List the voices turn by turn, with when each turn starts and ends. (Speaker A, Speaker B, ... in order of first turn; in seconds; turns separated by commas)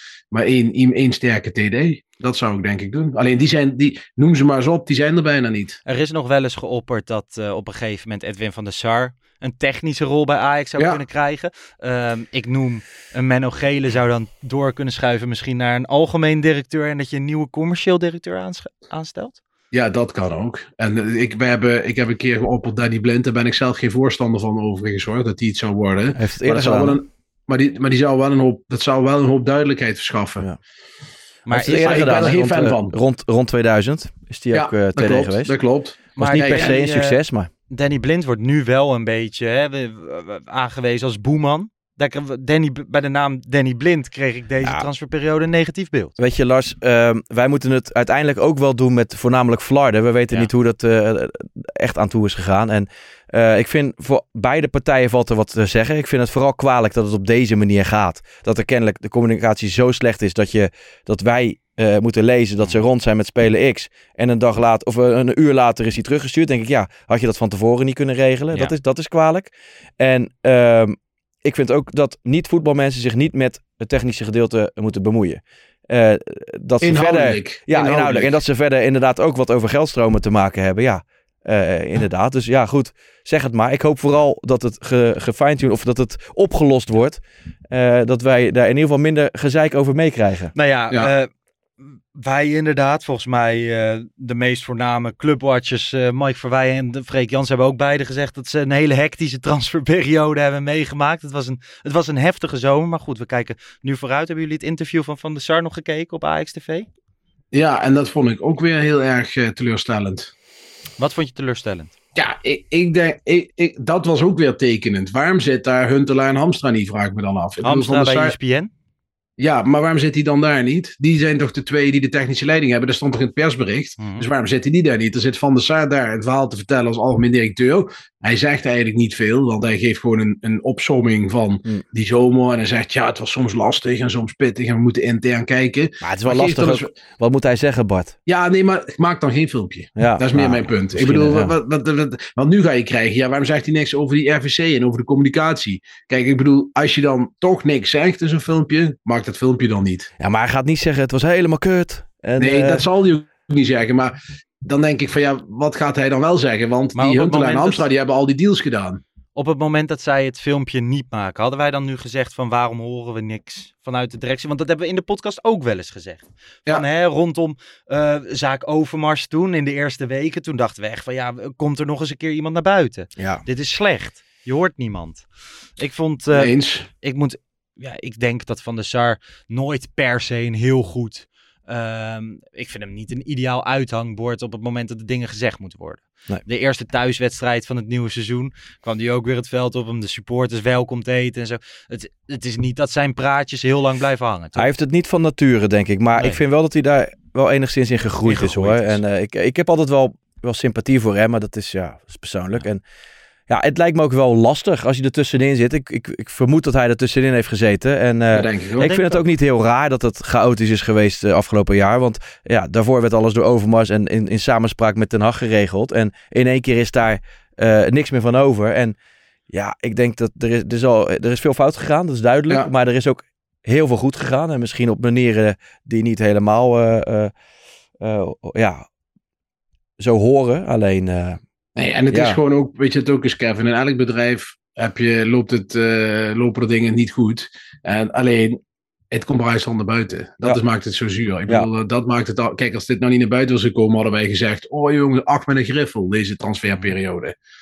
Speaker A: 0.3-5.8, Speaker B: 5.8-19.4, Speaker A: 19.7-30.4, Speaker C: 26.1-27.0, Speaker B: 31.5-32.2, Speaker C: 31.5-35.5, Speaker A: 31.8-33.0, Speaker A: 34.5-36.7, Speaker C: 36.2-37.5, Speaker B: 36.2-46.1, Speaker C: 46.2-90.5, Speaker A: 76.8-78.4, Speaker B: 90.5-91.3, Speaker B: 91.8-106.9, Speaker A: 107.5-110.3, Speaker B: 111.0-111.9, Speaker A: 112.1-118.3, Speaker B: 117.6-118.7, Speaker A: 119.4-136.9, Speaker B: 124.0-124.3, Speaker C: 136.0-138.1, Speaker A: 138.2-150.1, Speaker C: 140.0-141.6, Speaker C: 150.2-152.8, Speaker A: 152.4-159.0, Speaker B: 156.9-157.8, Speaker B: 159.3-175.2, Speaker C: 173.2-173.4, Speaker B: 175.8-194.7, Speaker A: 176.3-176.9, Speaker C: 194.6-202.8, Speaker B: 198.2-199.0, Speaker C: 203.5-218.9, Speaker A: 208.3-209.0, Speaker C: 219.5-227.3, Speaker C: 228.0-228.9, Speaker C: 230.0-231.4, Speaker A: 231.8-238.6, Speaker C: 232.1-232.4, Speaker A: 239.1-247.3